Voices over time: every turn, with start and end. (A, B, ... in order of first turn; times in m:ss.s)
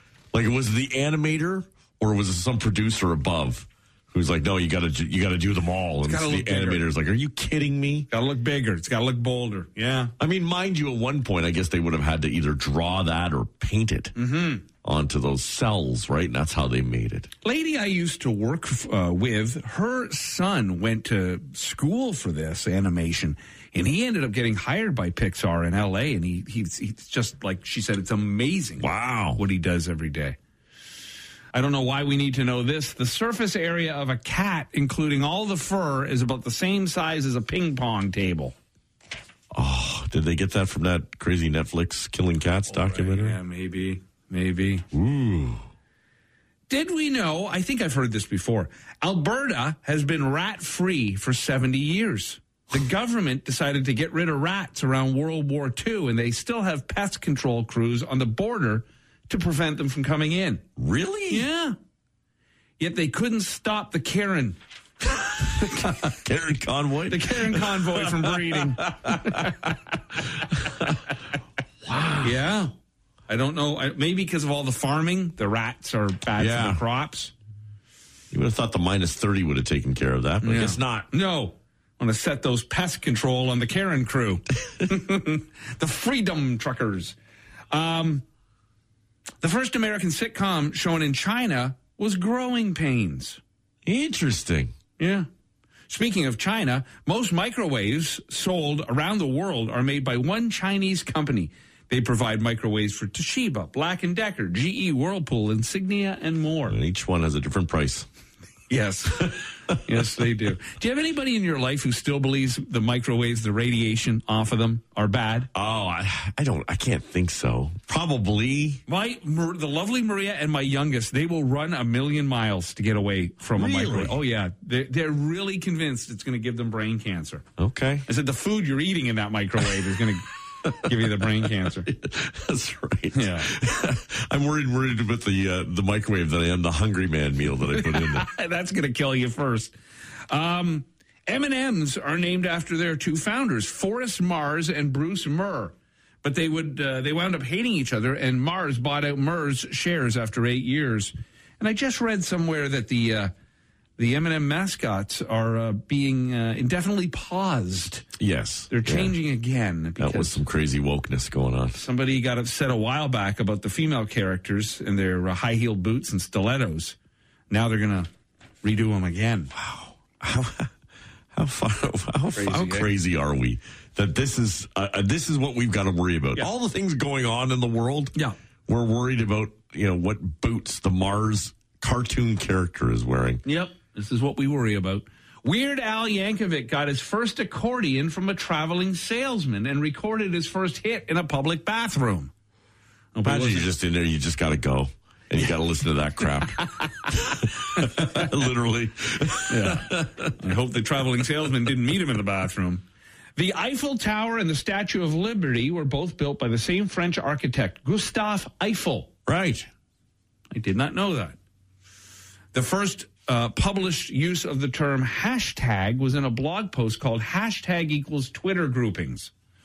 0:00.3-0:08.1 A
0:06.0-0:06.8 B
0:08.1-0:10.1 B
0:10.2-0:14.2 A
0:14.1-0:14.6 B
0:14.8-0:17.3 A
0:17.4-0:30.4 B
0:28.8-0:29.4 A
0:31.5-0:38.5 B
0:39.5-0:43.4 A
0:42.7-0:44.8 B
0:44.9-0:45.6 A
0:46.7-1:00.6 B
1:00.8-1:01.5 A
1:01.3-1:01.8 B
1:02.8-1:04.6 B
1:05.6-1:06.1 B
1:05.6-1:11.0 A
1:07.1-1:09.5 B
1:11.8-1:12.3 A
1:12.2-1:12.7 B
1:13.3-1:17.3 B
1:16.4-1:16.8 A
1:18.3-1:21.1 A
1:20.4-1:27.2 B
1:27.7-1:28.2 B
1:29.4-1:33.4 B
1:33.8-1:34.7 A
1:35.0-1:35.3 B
1:35.9-1:46.8 B
1:46.7-1:48.0 A
1:48.7-1:55.5 B
1:55.5-1:58.8 A
1:58.9-2:07.4 B
2:03.5-2:04.2 A
2:07.6-2:08.1 A
2:08.1-2:11.9 B
2:10.7-2:11.3 A
2:11.8-2:18.3 A
2:13.1-2:13.5 B
2:17.7-2:19.7 B
2:20.3-2:33.3 B
2:34.0-2:38.1 B
2:38.2-2:39.1 A
2:38.7-2:40.4 B
2:40.0-2:41.8 A
2:41.7-2:47.0 B
2:47.5-2:48.1 B
2:48.6-2:49.6 B
2:49.6-2:50.7 A
2:51.3-2:58.1 A
2:52.3-2:52.9 B
2:58.7-3:03.4 A
3:03.4-3:12.3 B
3:13.1-3:13.7 B
3:13.2-3:20.3 A
3:16.6-3:16.8 B
3:17.8-3:18.1 B
3:19.5-3:22.8 B
3:23.4-3:29.6 B
3:29.3-3:29.6 A
3:30.5-3:31.4 B
3:32.5-3:39.3 B